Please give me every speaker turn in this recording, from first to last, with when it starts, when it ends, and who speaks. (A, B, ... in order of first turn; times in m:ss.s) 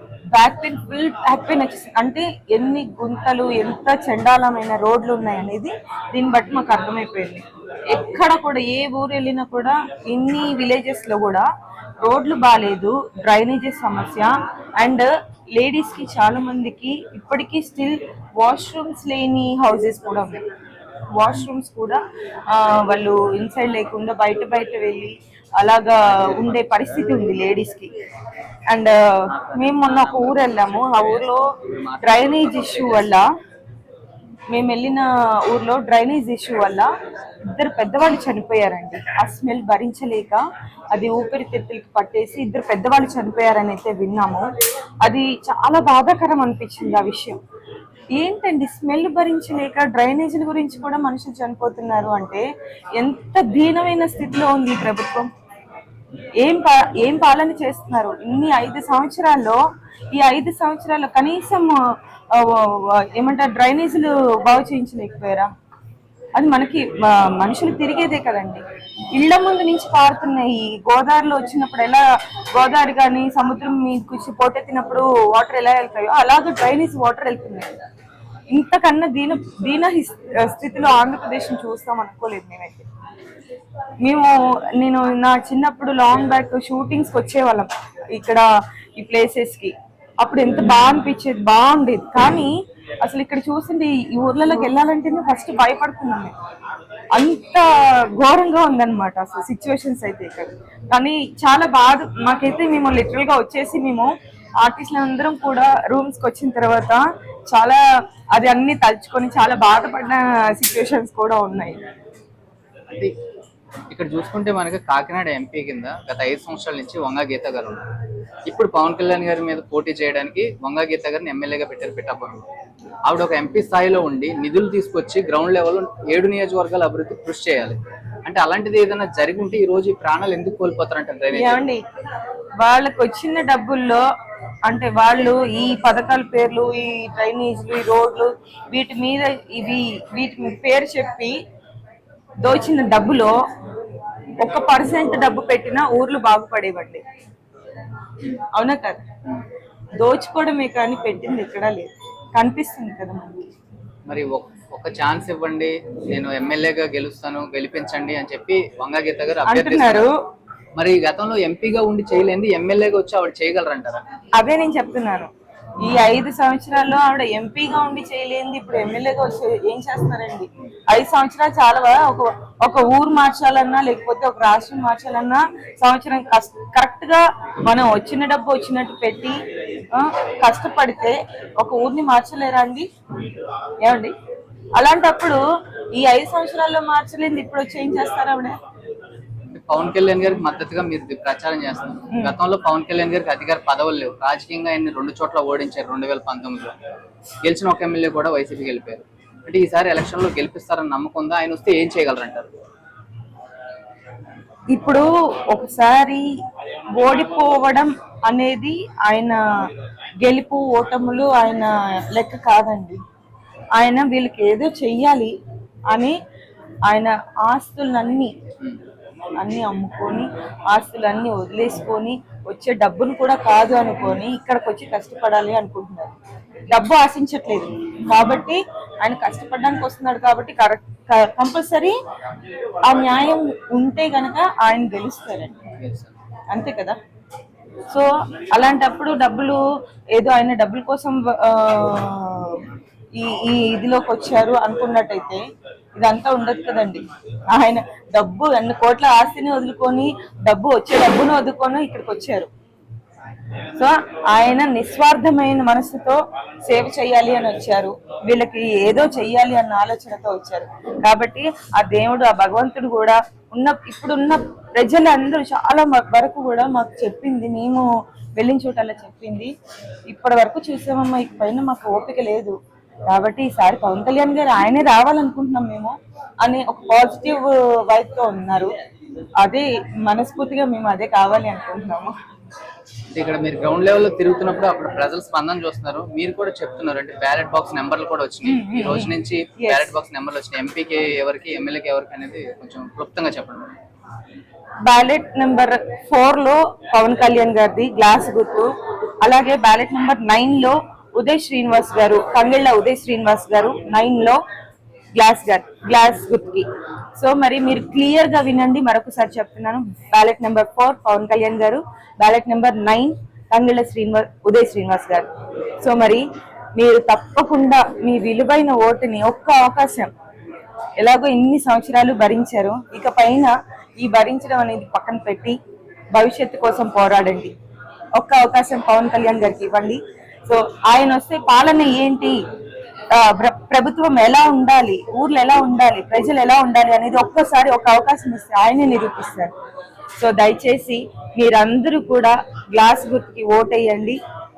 0:00.3-0:11.5 A
0:12.0-0:20.4 A
0:21.2-0:27.9 A
0:28.7-0:31.5 A
0:29.3-0:33.2 B
0:32.0-0:33.3 A
0:34.5-0:36.9 A
0:37.5-0:44.5 A
0:45.0-0:47.4 A
0:48.1-0:52.5 A
0:53.0-0:55.3 A
0:56.4-0:59.6 A
1:00.1-1:01.8 A
1:02.3-1:05.5 A
1:06.4-1:08.6 A
1:09.2-1:12.0 A
1:12.6-1:17.7 A
1:18.5-1:22.9 A
1:24.0-1:28.4 A
1:29.0-1:36.3 A
1:37.1-1:47.8 A
1:48.3-1:51.8 A
1:53.9-1:57.8 B
1:58.5-2:02.4 B
2:03.1-2:11.6 B
2:11.3-2:11.8 A
2:12.6-2:14.0 A
2:14.7-2:21.4 A
2:22.4-2:23.4 A
2:24.4-2:27.0 A
2:28.5-2:29.0 A
2:30.0-2:33.5 A
2:34.1-2:40.1 B
2:39.5-2:40.2 A
2:40.8-2:44.0 B
2:44.4-2:45.3 A
2:45.8-3:02.9 A
3:03.8-3:04.1 A
3:04.8-3:05.4 A
3:06.0-3:08.6 A
3:09.5-3:16.7 B
3:12.1-3:12.4 A
3:17.4-3:22.5 B
3:24.7-3:26.3 A
3:27.0-3:29.4 A
3:30.2-3:33.0 A
3:33.8-3:35.3 A
3:35.9-3:36.2 A
3:36.9-3:38.3 A
3:39.4-3:46.1 A
3:46.7-3:52.0 A
3:52.9-3:55.6 A
3:55.8-3:56.1 B
3:56.5-3:57.0 A
3:57.9-3:59.6 A
4:00.1-4:05.4 A
4:06.0-4:12.5 A
4:13.8-4:29.5 A
4:30.1-4:32.6 A
4:33.1-4:38.7 A
4:39.4-4:42.2 A
4:43.1-4:53.7 B
4:48.4-4:49.9 A
4:54.9-4:58.7 A
4:59.2-5:04.4 A
5:05.2-5:06.7 A
5:07.2-5:15.3 A
5:15.8-5:16.2 A
5:16.8-5:20.1 A
5:21.0-5:25.6 A
5:26.1-5:27.5 A
5:28.2-5:32.4 A
5:33.1-5:39.5 A
5:40.2-5:44.2 A